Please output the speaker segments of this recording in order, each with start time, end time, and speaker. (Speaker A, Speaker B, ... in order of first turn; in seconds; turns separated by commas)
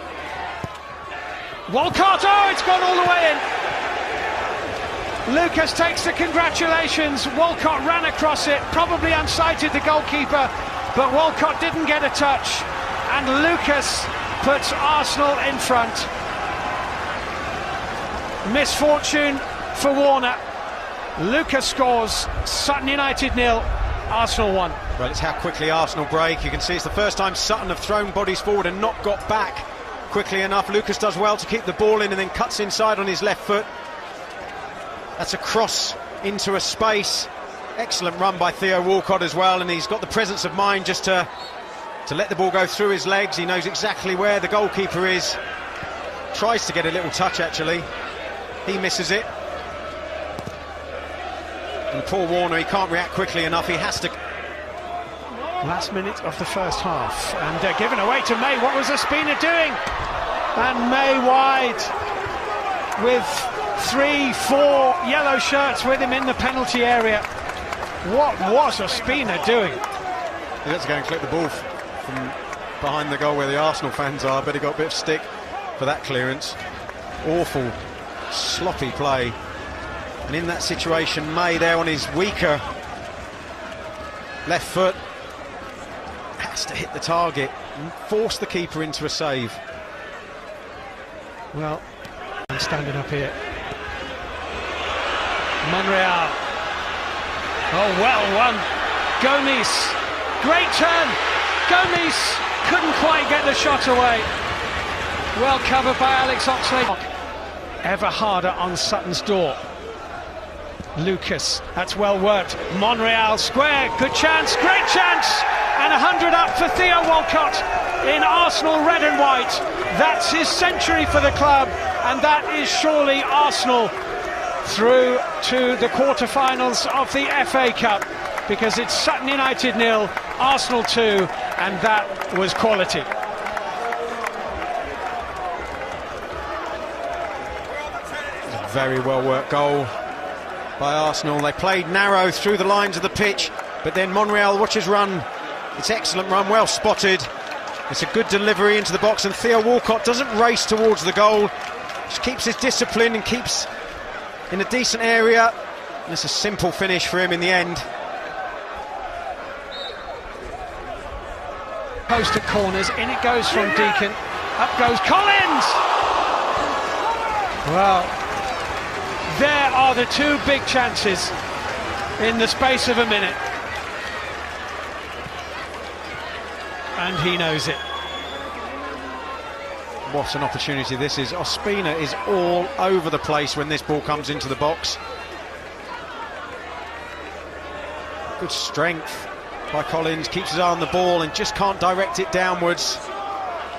Speaker A: 1.7-3.4, Speaker A: 5.3-16.1, Speaker A: 18.4-20.4, Speaker A: 21.2-24.8, Speaker B: 25.0-33.7, Speaker B: 35.2-41.3, Speaker B: 42.1-45.4, Speaker B: 46.3-47.9, Speaker B: 48.6-49.3, Speaker B: 51.9-54.1, Speaker A: 55.6-59.8, Speaker A: 60.5-61.9, Speaker A: 63.0-67.3, Speaker A: 68.0-69.8, Speaker B: 70.6-76.6, Speaker B: 77.2-77.8, Speaker B: 78.3-79.4, Speaker B: 80.3-82.7, Speaker B: 84.5-85.0, Speaker B: 86.4-89.6, Speaker A: 91.5-91.8, Speaker A: 92.5-93.4, Speaker A: 95.6-96.4, Speaker A: 97.7-98.7, Speaker A: 99.2-104.3, Speaker A: 105.3-107.1, Speaker A: 107.8-109.6, Speaker A: 111.0-123.9, Speaker A: 124.6-133.1, Speaker B: 138.5-139.9, Speaker B: 140.8-147.3, Speaker B: 147.9-151.5, Speaker B: 152.1-153.7, Speaker B: 154.5-155.5, Speaker B: 156.1-157.9, Speaker A: 162.1-165.8, Speaker A: 167.7-168.2, Speaker A: 169.3-171.3, Speaker A: 172.2-173.4, Speaker A: 177.0-177.8, Speaker B: 180.1-185.0, Speaker B: 188.4-193.0